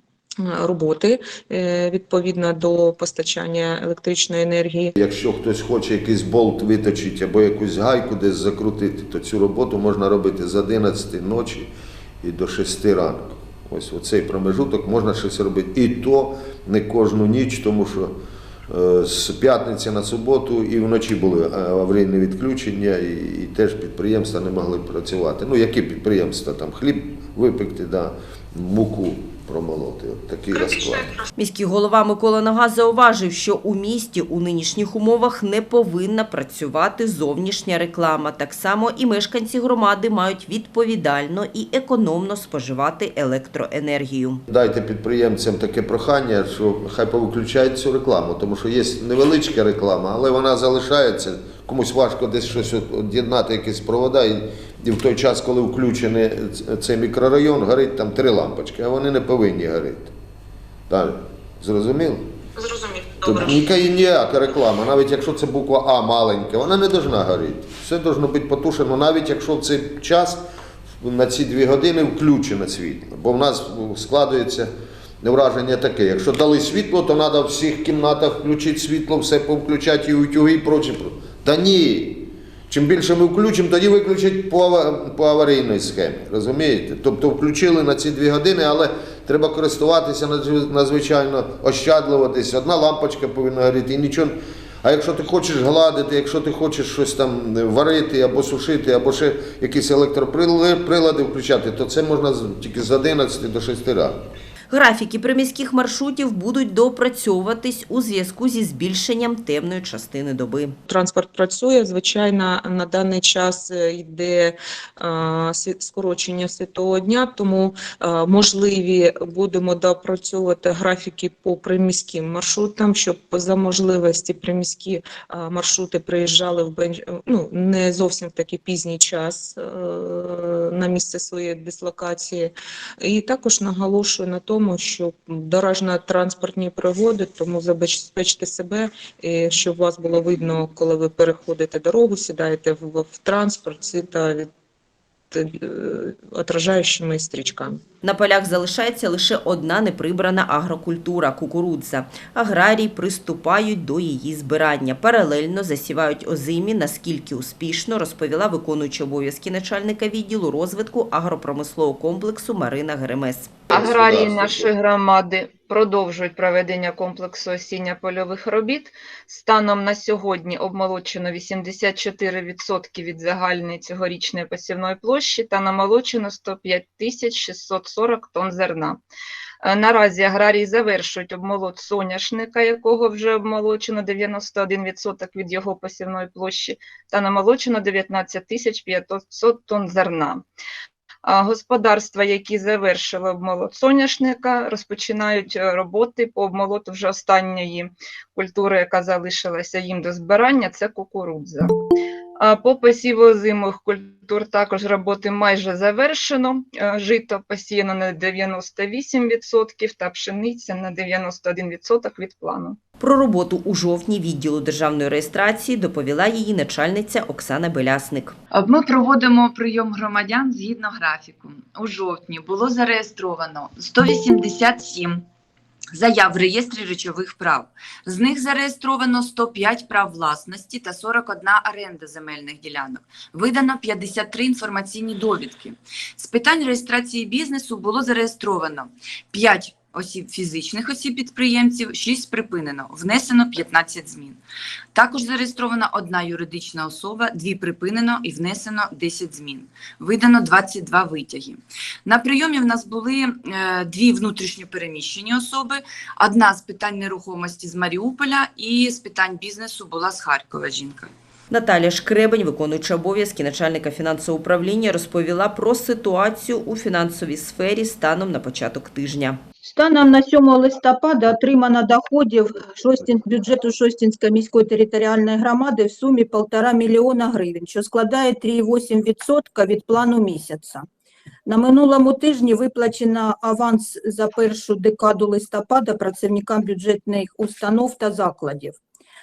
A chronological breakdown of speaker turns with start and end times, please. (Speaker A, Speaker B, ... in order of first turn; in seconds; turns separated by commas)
Speaker A: 0.4-4.9, Speaker B: 5.0-11.7, Speaker B: 12.2-18.1, Speaker B: 18.7-31.1, Speaker C: 31.4-44.4, Speaker B: 44.5-60.1, Speaker B: 60.9-62.3, Speaker A: 62.7-63.2, Speaker B: 63.2-70.5, Speaker B: 71.0-74.7, Speaker B: 75.2-104.2, Speaker C: 104.7-110.8, Speaker A: 110.9-144.5, Speaker A: 145.3-147.8, Speaker C: 148.0-163.5, Speaker B: 163.7-164.7, Speaker D: 163.7-179.0, Speaker D: 179.6-190.4, Speaker D: 191.2-201.7, Speaker D: 202.4-212.8, Speaker C: 213.0-218.3, Speaker E: 218.5-225.2, Speaker E: 225.9-244.4, Speaker E: 244.9-261.1, Speaker C: 261.5-269.4, Speaker F: 269.6-280.9, Speaker F: 281.5-288.8